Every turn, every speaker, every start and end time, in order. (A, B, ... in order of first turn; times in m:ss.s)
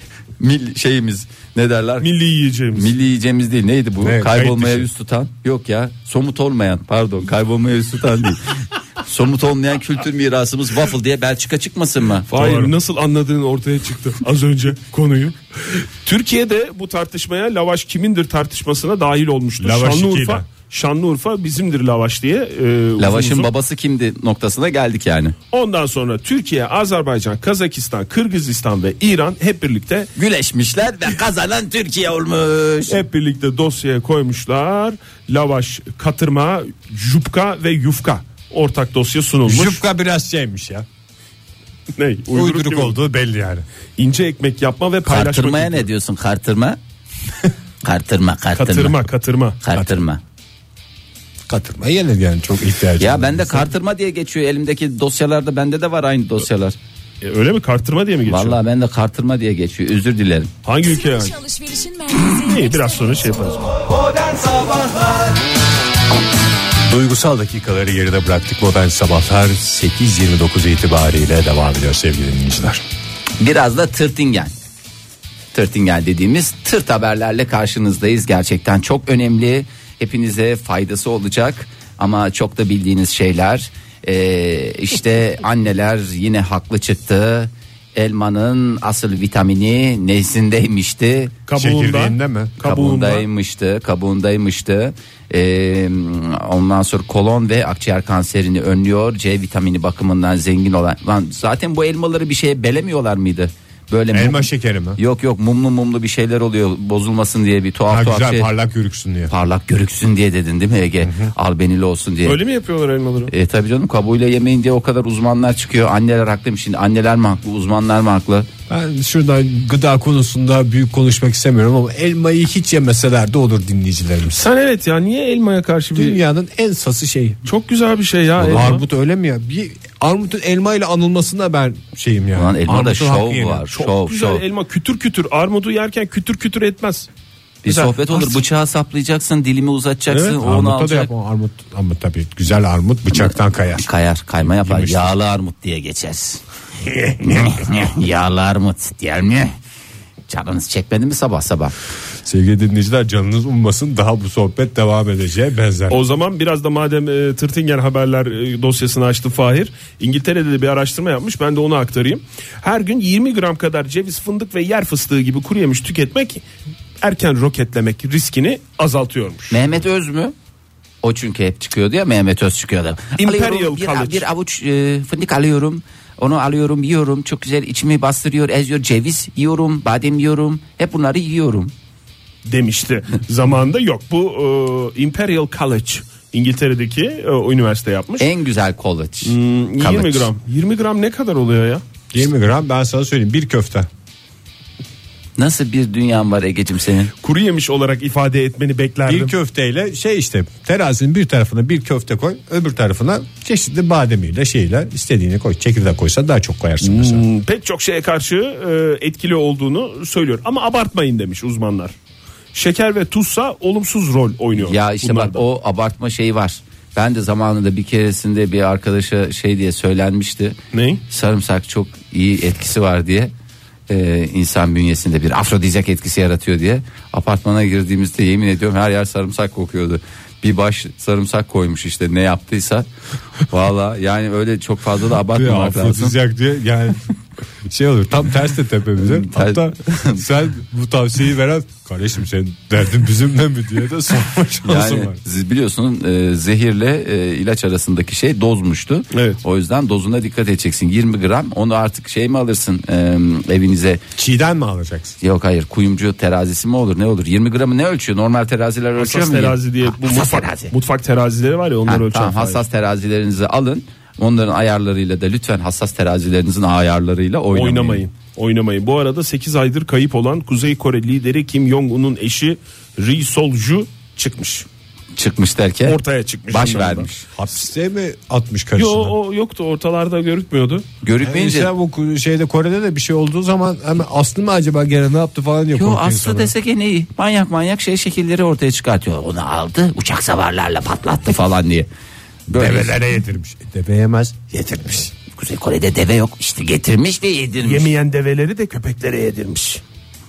0:00.4-0:02.1 A
0:02.0-0:02.9 B
0:02.7-0:12.3 A
0:04.0-0:04.9 C
0:12.3-0:23.5 B
0:12.3-0:12.7 C
0:19.6-0:20.4 C
0:23.0-0:25.3 A
0:25.5-0:30.1 B
0:30.2-0:33.0 A
0:32.9-0:39.8 B
0:39.4-0:40.8 C
0:41.9-0:43.0 B
0:42.3-0:43.6 C
0:44.0-0:45.9 B
0:45.0-0:46.8 A
0:47.8-0:49.0 A
0:48.5-0:49.6 B
0:49.6-0:50.2 A
0:49.7-0:50.0 C
0:51.5-0:53.7 C
0:53.0-0:56.8 A
0:57.2-0:58.6 B
0:58.2-1:00.5 A
1:00.6-1:01.4 B
1:00.8-1:03.8 D
1:02.3-1:03.6 B
1:06.9-1:12.8 C
1:13.4-1:14.5 A
1:15.5-1:31.4 A
1:31.5-1:33.3 B
1:31.6-1:32.6 C
1:32.6-1:48.5 A
1:44.1-1:45.0 C
1:47.9-1:49.3 C
1:49.3-1:52.4 A
1:51.0-1:51.3 C
1:52.2-1:53.3 B
1:53.3-1:58.5 A
1:58.7-2:04.4 C
2:04.3-2:06.2 B
2:05.9-2:07.4 C
2:07.4-2:08.8 B
2:08.4-2:08.8 A
2:08.5-2:13.7 C
2:12.3-2:14.4 A
2:13.7-2:17.1 B
2:17.6-2:21.1 A
2:17.6-2:18.4 B
2:20.4-2:23.9 C
2:23.1-2:29.6 A
2:24.4-2:25.1 C
2:30.3-2:31.7 A
2:32.2-2:36.0 C
2:35.9-2:46.4 B
2:47.0-2:49.6 B
2:49.5-2:50.3 A
2:51.0-3:01.7 A
2:53.2-2:54.2 B
3:02.4-3:08.3 B
3:08.2-3:10.3 A
3:09.2-3:11.8 B
3:12.1-3:13.9 C
3:15.4-3:17.1 A
3:17.2-3:19.3 B
3:19.1-3:27.2 C
3:26.8-3:31.9 B
3:32.5-3:35.4 B
3:34.6-3:40.6 A
3:40.7-3:41.0 B
3:41.1-3:43.3 A
3:43.9-3:52.9 A
3:53.4-3:56.2 A
3:55.3-3:57.0 C
3:57.6-4:05.2 C
3:59.0-4:00.2 A
4:04.6-4:14.0 A
4:09.1-4:09.4 B
4:14.2-4:15.2 C
4:15.2-4:20.7 A
4:19.0-4:22.6 B
4:21.8-4:28.0 A
4:27.5-4:34.6 B
4:35.2-4:37.2 A
4:35.8-4:37.1 B
4:37.3-4:39.1 C
4:38.8-4:40.8 B
4:41.0-4:41.7 A
4:41.2-4:46.5 C
4:45.7-4:51.9 A
4:52.5-4:52.9 A
4:52.5-4:55.1 C
4:55.3-4:57.9 A
4:57.6-4:59.8 B